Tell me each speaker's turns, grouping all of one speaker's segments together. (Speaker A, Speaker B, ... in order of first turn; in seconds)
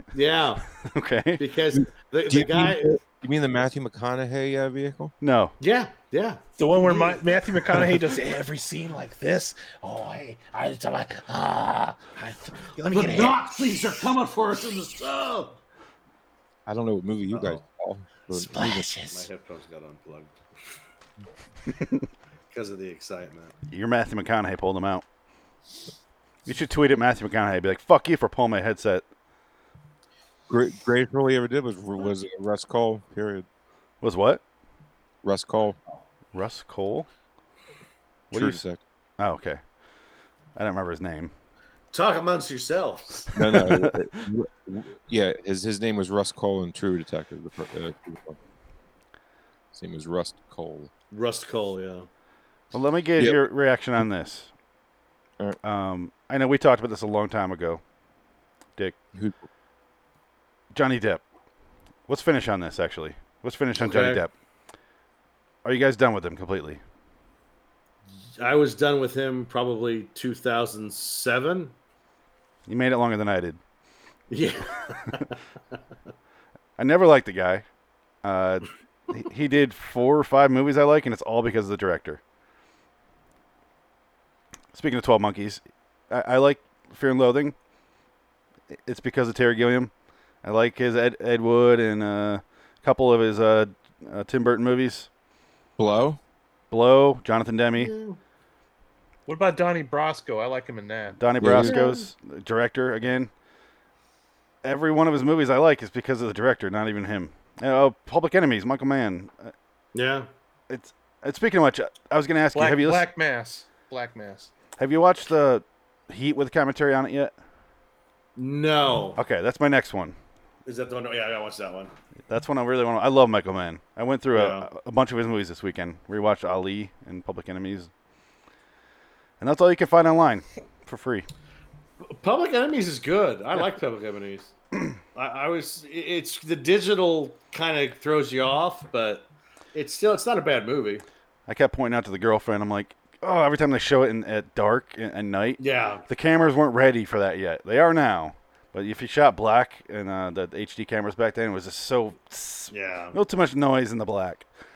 Speaker A: 0.1-0.6, 1.4-3.0, 5.6-7.2, 12.8-15.6, 17.3-17.6, 19.1-20.3, 22.5-23.5, 41.9-43.3, 51.1-52.1, 63.8-64.2, 68.4-71.7, 74.3-75.4, 97.8-98.2, 101.6-102.1, 109.9-110.3, 118.4-119.2, 120.7-121.9, 124.3-124.7, 132.0-134.5, 135.2-141.1, 145.6-146.1, 152.7-153.2
Speaker B: 0.8-1.4, 5.2-5.5, 23.7-25.0, 26.5-29.1, 34.0-34.4, 36.3-37.1, 38.3-38.6, 39.2-39.6, 40.6-41.3, 43.6-44.0, 52.7-54.5, 55.6-57.8, 60.7-61.2, 62.1-64.3, 65.7-66.8, 72.7-73.6, 76.8-77.7, 78.2-82.2, 84.7-87.5, 88.8-89.9, 90.4-95.1, 96.7-97.9, 101.2-103.3, 104.6-109.5, 110.7-113.0, 114.8-117.3, 119.2-120.2, 122.3-127.9, 129.4-131.3, 141.5-154.5
Speaker C: 1.7-5.1, 16.7-18.9, 30.5-33.5, 35.2-35.8, 38.3-38.8, 43.3-48.4, 49.7-50.9, 59.1-59.5, 95.8-96.2, 101.4-101.8
Speaker D: 6.6-13.5, 18.4-19.3, 99.3-101.2, 112.5-114.5